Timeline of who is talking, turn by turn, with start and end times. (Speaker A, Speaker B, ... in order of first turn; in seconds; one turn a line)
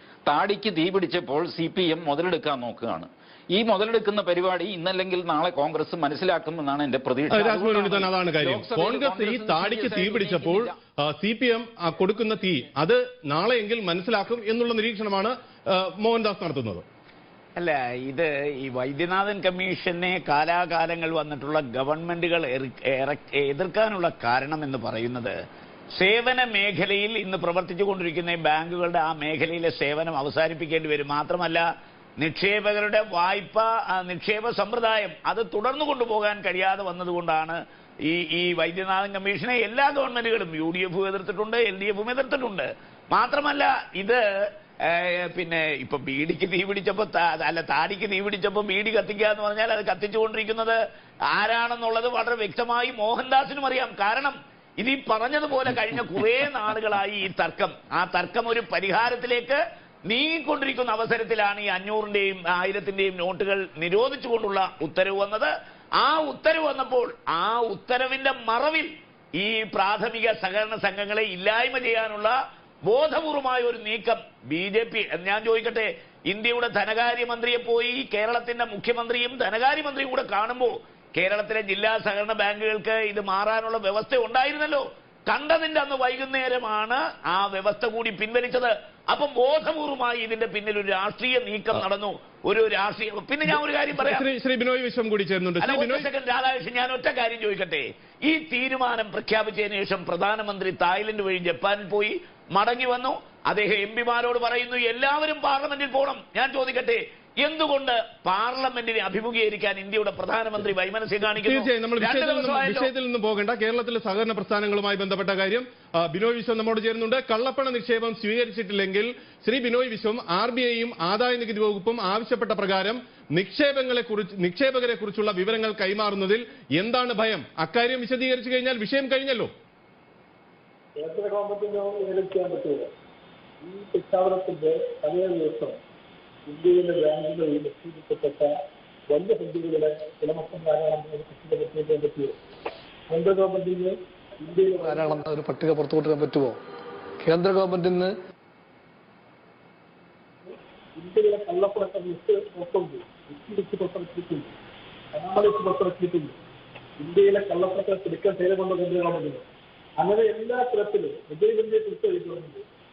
Speaker A: 0.2-10.8
Speaker B: 7.3-16.8
Speaker C: 17.6-25.3
Speaker C: 26.0-31.6
Speaker C: 32.2-44.2
Speaker C: 44.8-50.8
Speaker C: 51.3-72.3
Speaker C: 72.9-94.2
Speaker B: 93.5-96.1
Speaker C: 95.6-112.9
Speaker B: 111.3-129.5
Speaker D: 131.0-132.9
Speaker D: 133.6-135.8
Speaker D: 136.5-138.6
Speaker D: 139.1-142.3
Speaker D: 143.1-145.2
Speaker E: 144.8-146.6
Speaker E: 147.2-148.1
Speaker D: 150.4-154.5
Speaker D: 155.1-156.3
Speaker D: 157.0-159.4
Speaker D: 160.0-162.6